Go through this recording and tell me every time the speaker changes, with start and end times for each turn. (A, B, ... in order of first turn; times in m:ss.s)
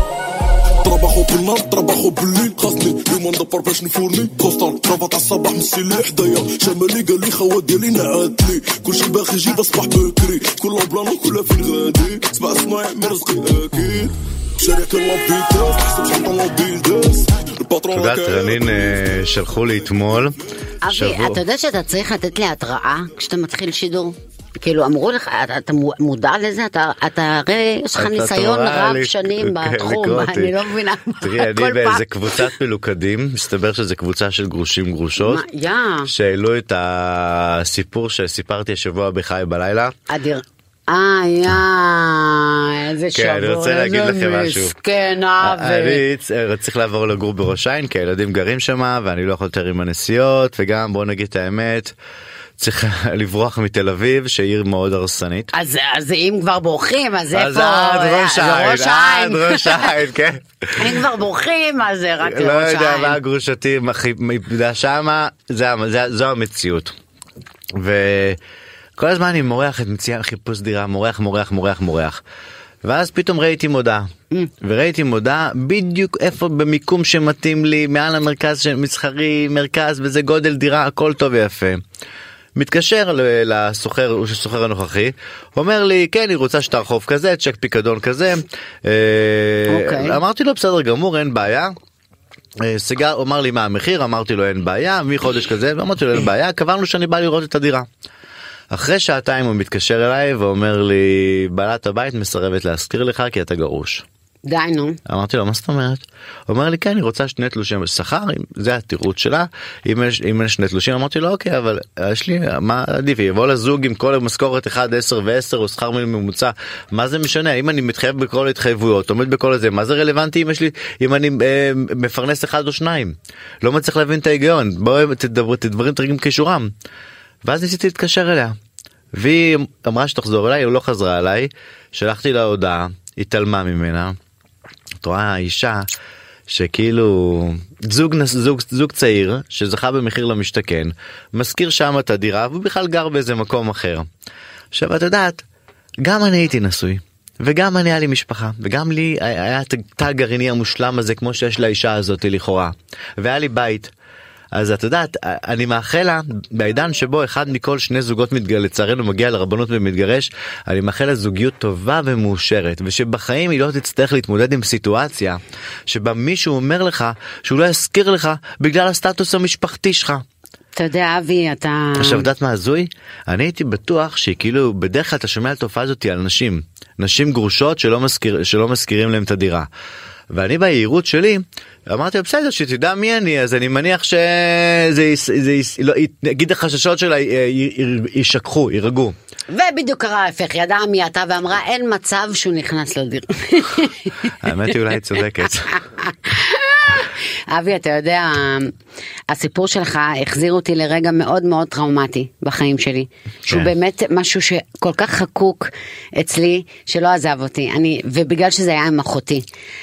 0:00.8-0:19.1 A
0:17.9-0:21.4 B
0:20.8-0:32.5 C
0:28.0-0:30.6 B
0:31.2-0:35.4 B
0:35.2-0:36.1 C
0:36.0-0:39.9 B
0:40.1-0:46.0 C
0:43.1-0:44.7 B
0:45.4-0:51.9 B
0:52.6-0:55.5 B
0:55.5-0:59.9 C
0:57.3-1:01.0 B
1:00.8-1:03.2 C
1:02.2-1:06.9 B
1:07.7-1:08.4 B
1:09.0-1:12.2 B
1:12.8-1:14.1 B
1:14.6-1:21.8 B
1:22.6-1:31.7 B
1:29.7-1:30.2 C
1:32.6-1:37.9 B
1:38.7-1:44.0 B
1:44.4-1:45.0 C
1:45.0-2:06.7 B
2:07.4-2:08.6 B
2:09.1-2:14.2 B
2:15.0-2:15.9 B
2:16.5-2:24.1 B
2:24.7-2:25.4 B
2:26.0-2:33.9 B
2:34.5-2:50.2 B
2:50.8-2:52.3 C
2:52.0-2:59.7 B
3:00.3-3:09.1 B
3:09.5-3:14.3 C
3:14.4-3:15.7 B
3:15.7-3:18.7 C
3:19.3-3:29.4 C